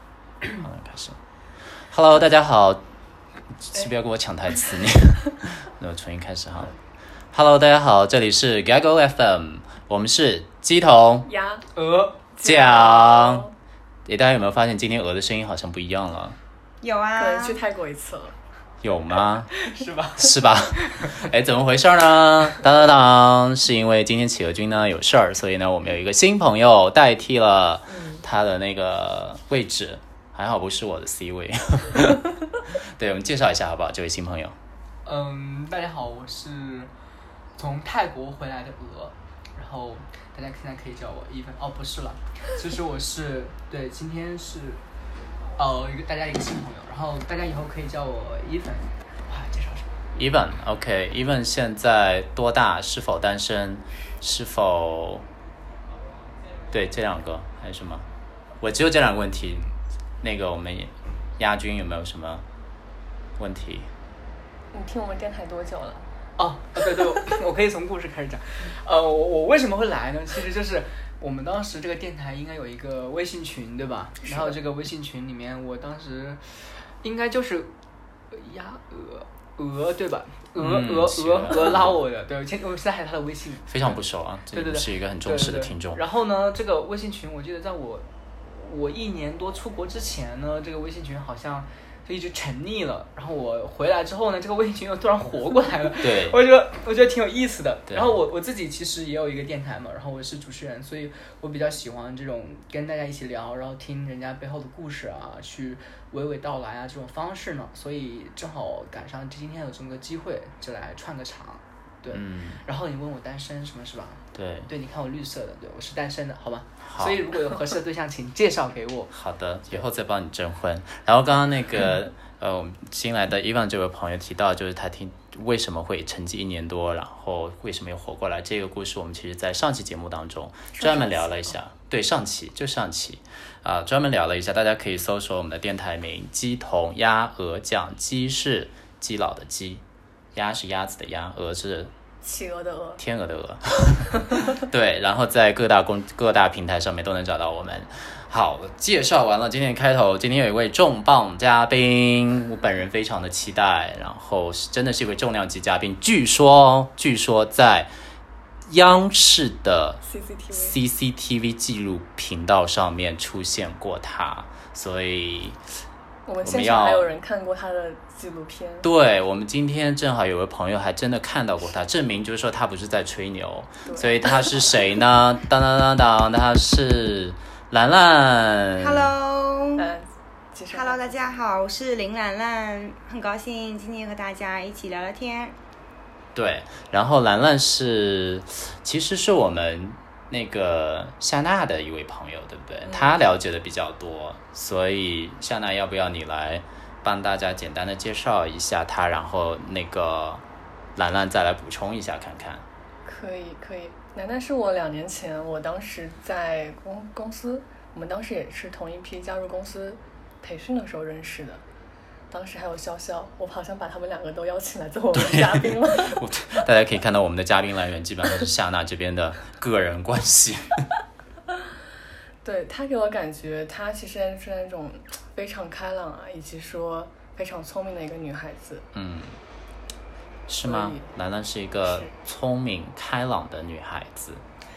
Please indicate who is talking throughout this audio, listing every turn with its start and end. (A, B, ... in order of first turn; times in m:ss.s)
0:00.6-0:01.2 A
0:01.9-0:02.8 A
0:03.6-0:06.7 A
0:07.3-0:11.3 A
0:11.2-0:11.6 B
0:11.8-0:12.2 C
0:12.3-0:13.5 B
0:12.4-0:13.4 A
0:14.0-0:16.4 A
0:16.8-0:17.6 D
0:17.2-0:18.3 B
0:18.8-0:19.5 A
0:19.6-0:21.2 C
0:20.2-0:34.6 A
0:27.9-0:28.2 B
0:35.0-0:36.9 C
0:37.6-0:44.8 C
0:45.6-0:49.9 C
0:50.2-0:55.2 A
0:56.7-0:58.0 A
0:58.6-0:59.7 A
1:00.2-1:02.4 A
1:03.4-1:03.9 A
1:04.7-1:06.1 B
1:06.4-1:17.7 C
1:14.2-1:14.6 B
1:18.3-1:24.0 C
1:20.6-1:22.0 A
1:23.7-1:26.0 A
1:24.5-1:59.1 C
1:36.0-1:36.4 A
1:37.9-1:38.1 A
1:52.1-1:52.6 A
1:54.3-1:54.7 A
1:56.8-1:57.2 A
1:59.1-2:19.8 A
2:10.7-2:11.5 B
2:20.3-2:21.9 A
2:22.2-2:23.0 B
2:23.0-2:37.9 A
2:38.7-2:45.6 A
2:40.0-2:40.8 B
2:46.2-2:48.9 B
2:46.4-2:47.1 A
2:48.8-2:59.1 A
2:53.8-2:54.6 B
2:58.8-2:59.9 D
2:59.8-3:01.4 B
3:00.7-3:05.5 D
3:06.3-3:20.4 A
3:12.9-3:13.2 B
3:21.0-3:22.6 A
3:23.0-3:31.6 B
3:32.3-3:36.2 B
3:35.1-3:40.8 A
3:42.4-3:48.8 B
3:48.9-3:49.4 A
3:50.5-3:54.4 A
3:50.6-3:51.1 B
3:51.8-3:52.1 B